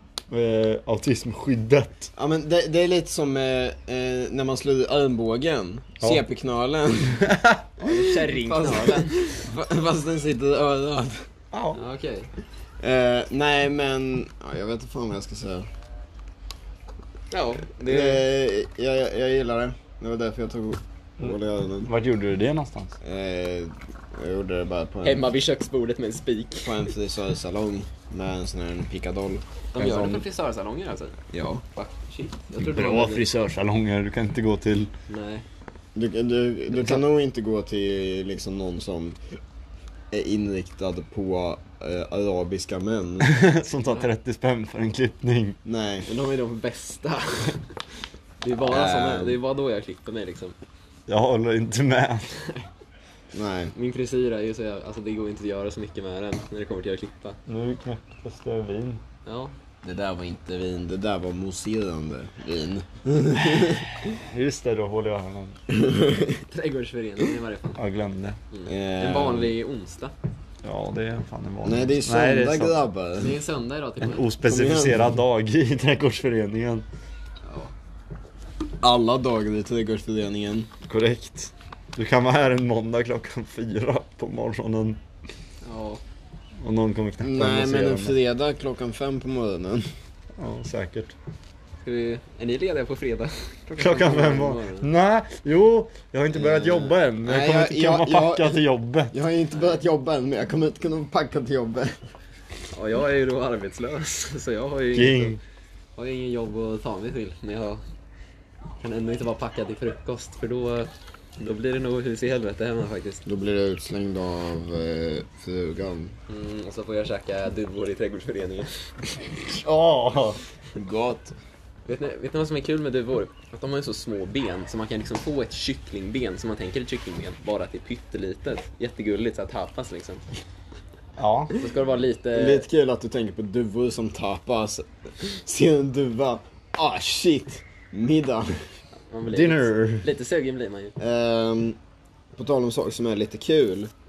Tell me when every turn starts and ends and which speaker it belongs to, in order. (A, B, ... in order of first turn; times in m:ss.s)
0:00.3-0:02.1 A
0:02.2-0:07.3 B
0:07.2-0:07.6 A
0:07.8-0:09.3 C
0:07.9-0:11.3 B
0:11.5-0:11.8 A
0:11.7-0:12.3 C
0:12.8-0:15.7 B
0:17.3-0:18.2 C
0:17.8-0:21.9 B
0:21.2-0:23.0 A
0:23.0-0:25.3 B
0:25.0-0:26.8 C
0:26.6-0:30.1 B
0:29.7-0:31.2 C
0:31.3-0:31.6 B
0:31.8-0:33.3 C
0:32.6-0:34.9 A
0:35.1-0:35.4 C
0:36.0-0:39.2 B
0:40.1-0:43.3 B
0:43.2-0:45.6 A
0:45.6-0:46.1 B
0:46.1-0:47.6 C
0:48.4-0:50.6 C
0:48.6-0:49.4 B
0:51.1-0:52.3 A
0:52.3-0:52.7 C
0:53.3-0:53.7 B
0:53.8-0:57.4 C
0:57.5-0:59.0 A
0:59.2-0:59.5 C
0:59.8-1:03.9 B
1:04.2-1:05.6 A
1:05.7-1:06.4 B
1:06.5-1:07.8 C
1:07.8-1:08.4 A
1:08.5-1:10.1 C
1:08.7-1:09.5 B
1:10.6-1:12.8 A
1:11.6-1:13.4 B
1:13.2-1:14.3 C
1:14.0-1:16.9 A
1:14.4-1:15.0 B
1:17.4-1:17.7 C
1:18.8-1:20.7 B
1:20.8-1:25.0 A
1:25.6-1:26.0 C
1:26.6-1:28.2 A
1:27.2-1:29.9 B
1:30.4-1:31.2 A
1:31.8-1:34.9 C
1:33.8-1:39.1 A
1:36.3-1:42.0 B
1:42.7-1:45.4 C
1:44.9-1:45.4 A
1:46.0-1:47.8 C
1:48.8-1:53.2 C
1:53.3-1:56.2 B
1:56.3-1:58.7 C
1:59.5-2:00.4 A
2:00.8-2:01.3 B
2:01.9-2:10.2 C
2:11.2-2:11.5 A
2:11.5-2:12.7 C
2:12.3-2:18.7 B
2:19.1-2:20.9 C
2:19.3-2:20.1 A
2:21.0-2:21.8 B
2:22.4-2:23.9 B